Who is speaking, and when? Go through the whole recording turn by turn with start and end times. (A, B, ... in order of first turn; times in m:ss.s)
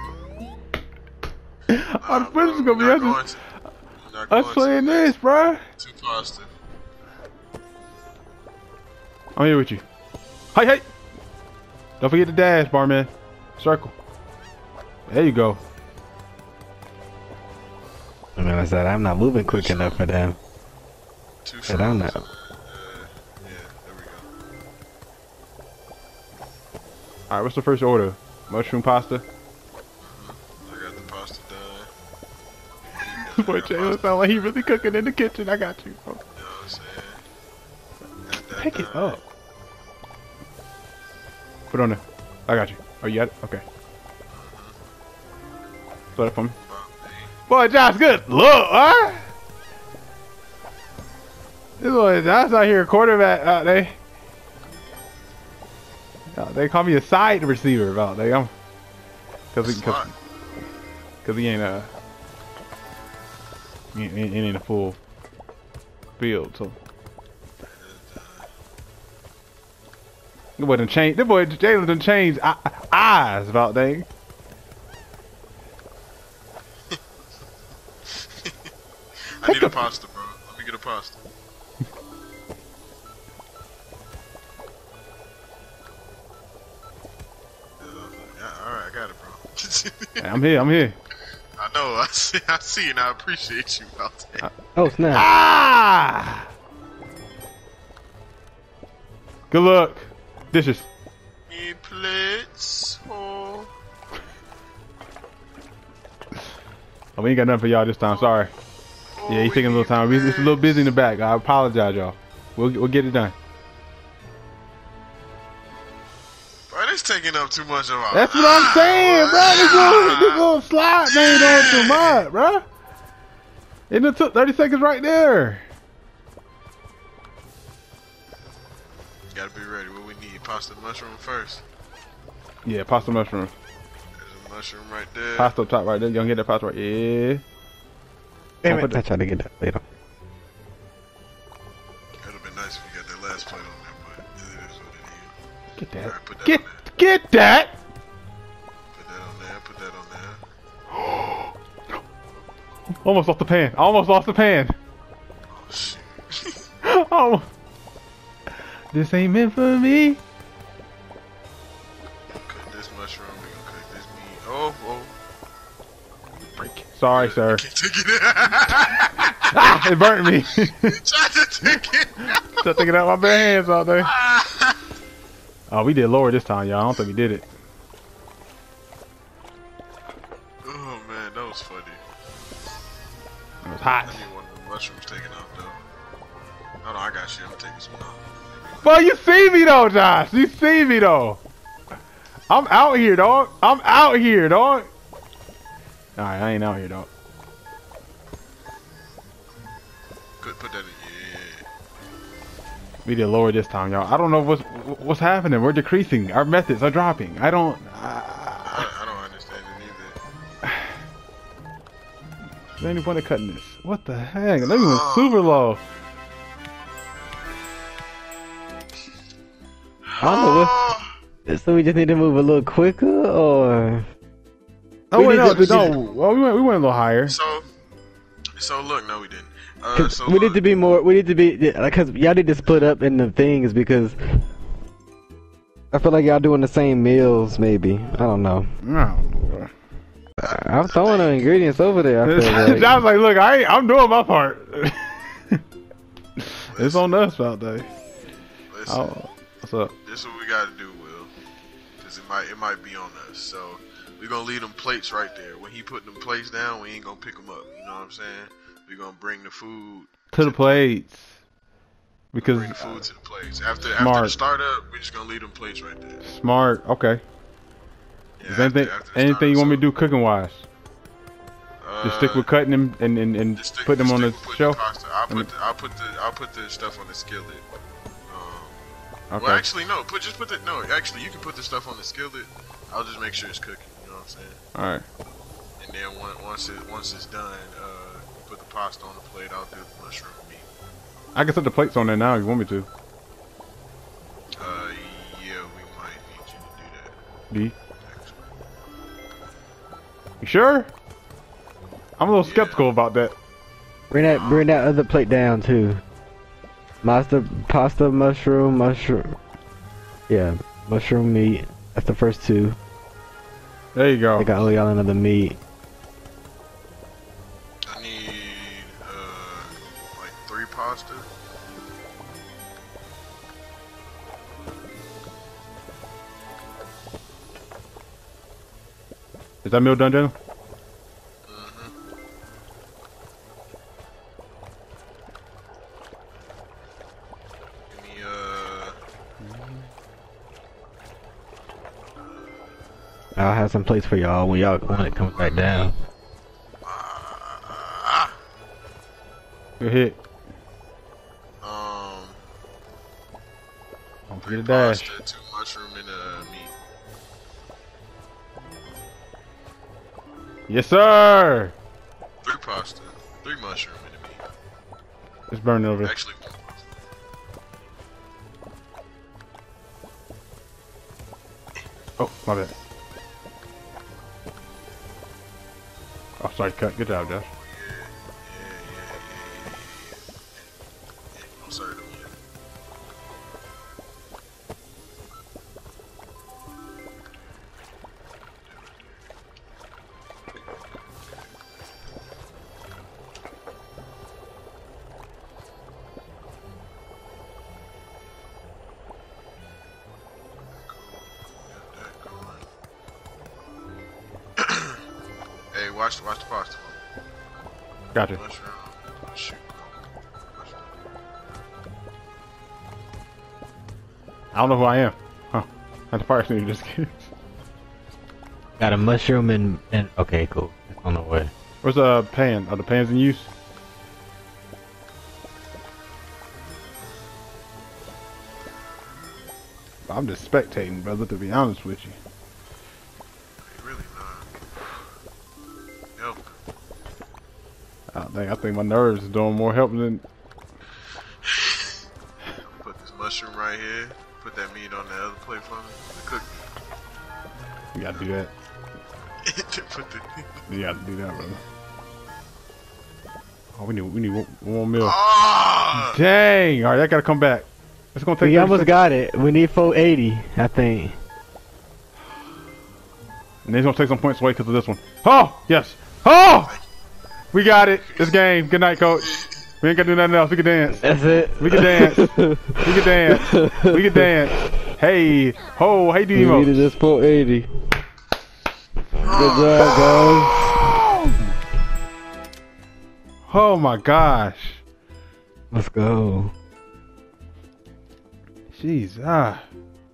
0:01.7-0:03.2 A
0:02.0-0:03.4 B
0:04.0-0:05.2 B
0:04.3-0:05.6 A
0:05.8-0:06.5 B
0:09.4-0:09.8 A
0:10.5-0:10.8 A
0:12.0-0:13.9 A
0:15.1-0:15.6 A
0:18.4-0:20.4 C
0:19.4-0:20.1 B
0:21.4-0:24.3 B
0:21.7-0:22.2 C
0:27.3-0:29.2 A
0:30.0-0:31.9 B
0:32.9-0:35.0 B
0:33.3-0:36.2 A
0:36.4-0:37.2 B
0:38.2-0:39.2 B
0:38.6-0:39.2 A
0:41.7-0:43.6 A
0:44.3-0:44.8 B
0:46.2-0:46.5 A
0:46.6-0:47.3 B
0:47.5-0:49.2 A
0:51.8-0:54.0 A
0:56.3-0:58.5 A
0:59.5-1:00.1 A
0:59.6-1:00.1 B
1:01.2-1:01.9 A
1:03.9-1:05.0 A
1:06.2-1:06.8 A
1:07.8-1:08.5 B
1:10.6-1:14.1 A
1:18.2-1:18.5 B
1:19.4-1:21.2 B
1:19.4-1:19.8 A
1:27.8-1:30.2 B
1:30.2-1:31.0 A
1:31.6-1:34.5 B
1:34.8-1:35.3 C
1:35.1-1:36.5 A
1:39.5-1:40.9 A
1:41.5-1:43.7 B
1:47.2-1:48.5 A
1:48.0-1:48.4 B
1:49.1-1:50.9 B
1:49.3-1:53.4 A
1:56.7-2:00.5 B
1:58.1-2:02.6 A
2:01.0-2:02.3 B
2:03.9-2:05.6 A
2:09.3-2:11.6 B
2:12.6-2:13.5 A
2:14.2-2:15.6 B
2:15.3-2:17.4 A
2:18.6-2:19.8 C
2:18.6-2:19.0 A
2:22.2-2:25.3 B
2:25.8-2:27.7 A
2:26.0-2:26.8 B
2:28.9-2:30.4 B
2:31.0-2:31.5 A
2:33.0-2:34.7 A
2:35.5-2:36.6 B
2:36.8-2:37.5 A
2:38.9-2:40.2 A
2:42.4-2:45.1 B
2:46.6-2:47.6 A
2:47.1-2:49.5 B
2:49.5-2:50.9 A
2:50.8-2:53.4 B
2:52.6-2:54.1 A
2:54.0-2:54.7 B
2:55.7-2:57.5 A
3:00.6-3:02.0 B
3:03.6-3:04.3 A
3:04.0-3:05.8 B
3:06.8-3:09.0 B
3:08.8-3:11.4 A
3:12.5-3:14.9 A
3:16.2-3:17.1 A
3:20.4-3:21.7 B
3:23.0-3:28.8 A
3:28.6-3:30.2 B
3:32.8-3:35.8 A
3:34.6-3:35.7 B
3:40.0-3:41.1 B
3:40.2-3:40.8 C
3:41.5-3:44.0 C
3:45.1-3:47.4 A
3:45.1-3:46.0 C
3:47.2-3:47.7 B
3:48.6-3:50.8 B
3:49.9-3:54.2 C
3:55.9-3:58.7 C
3:58.8-3:59.7 A
4:00.4-4:02.9 C
4:00.4-4:01.5 B
4:02.2-4:05.4 A
4:06.6-4:07.9 A
4:06.7-4:07.2 B
4:08.7-4:09.1 B
4:08.9-4:09.9 A
4:10.0-4:11.3 B
4:12.0-4:20.8 B
4:20.3-4:21.2 A
4:22.3-4:23.0 A
4:22.4-4:26.2 B
4:24.0-4:24.4 A
4:26.2-4:27.2 A
4:28.4-4:29.8 B
4:28.5-4:30.6 A
4:31.8-4:32.5 B
4:32.0-4:35.5 A
4:33.5-4:37.6 B
4:38.3-4:38.8 B
4:39.3-4:39.6 A
4:39.4-4:44.6 B
4:44.7-4:45.0 A
4:45.8-4:50.7 B
4:51.3-4:52.9 A
4:54.6-4:57.1 B
4:58.0-4:58.4 B
5:00.4-5:00.9 A
5:02.2-5:03.3 A
5:02.4-5:02.8 B
5:04.1-5:06.0 C
5:04.2-5:04.8 B
5:07.0-5:09.4 C
5:10.3-5:12.8 C
5:13.9-5:14.6 A
5:14.4-5:15.6 C
5:17.9-5:21.3 B
5:29.6-5:30.3 A
5:31.4-5:31.9 B
5:37.9-5:39.0 B
5:39.4-5:39.8 A
5:42.2-5:42.5 B
5:43.4-5:45.9 C
5:44.8-5:45.9 B
5:46.8-5:48.4 B
5:49.8-5:50.2 A
5:51.6-5:52.4 B
5:54.3-5:55.1 A
5:54.4-5:56.7 B
6:00.7-6:01.7 A
6:02.4-6:04.4 B
6:05.5-6:06.1 A
6:06.0-6:06.9 B
6:12.2-6:12.8 A
6:16.4-6:17.5 A
6:17.4-6:20.6 B
6:21.3-6:22.4 B
6:28.7-6:29.1 B
6:40.8-6:42.6 B
6:44.6-6:45.0 B
6:45.7-6:47.0 B
6:48.1-6:48.4 A
6:48.3-6:50.9 B
6:54.5-6:57.3 A
6:58.8-7:01.5 C
7:01.8-7:03.5 A
7:10.1-7:12.2 A
7:13.6-7:14.5 B
7:16.2-7:16.4 B
7:18.1-7:20.2 A
7:21.5-7:21.8 B
7:22.6-7:26.7 B
7:27.9-7:28.5 A
7:29.4-7:30.7 B
7:30.7-7:31.6 A
7:33.7-7:35.2 A
7:35.0-7:36.2 B
7:35.9-7:38.9 A
7:38.4-7:41.2 C
7:43.6-7:46.7 A
7:47.5-7:51.0 A
7:48.1-7:48.4 B
7:49.2-7:49.5 B
7:51.0-7:52.6 C
7:51.6-7:56.7 A
7:53.3-7:54.0 C
7:56.3-7:57.7 C
7:59.2-8:00.6 B
7:59.2-8:00.7 C
8:00.8-8:01.4 A
8:03.5-8:04.8 A
8:05.7-8:06.5 C
8:08.7-8:09.7 A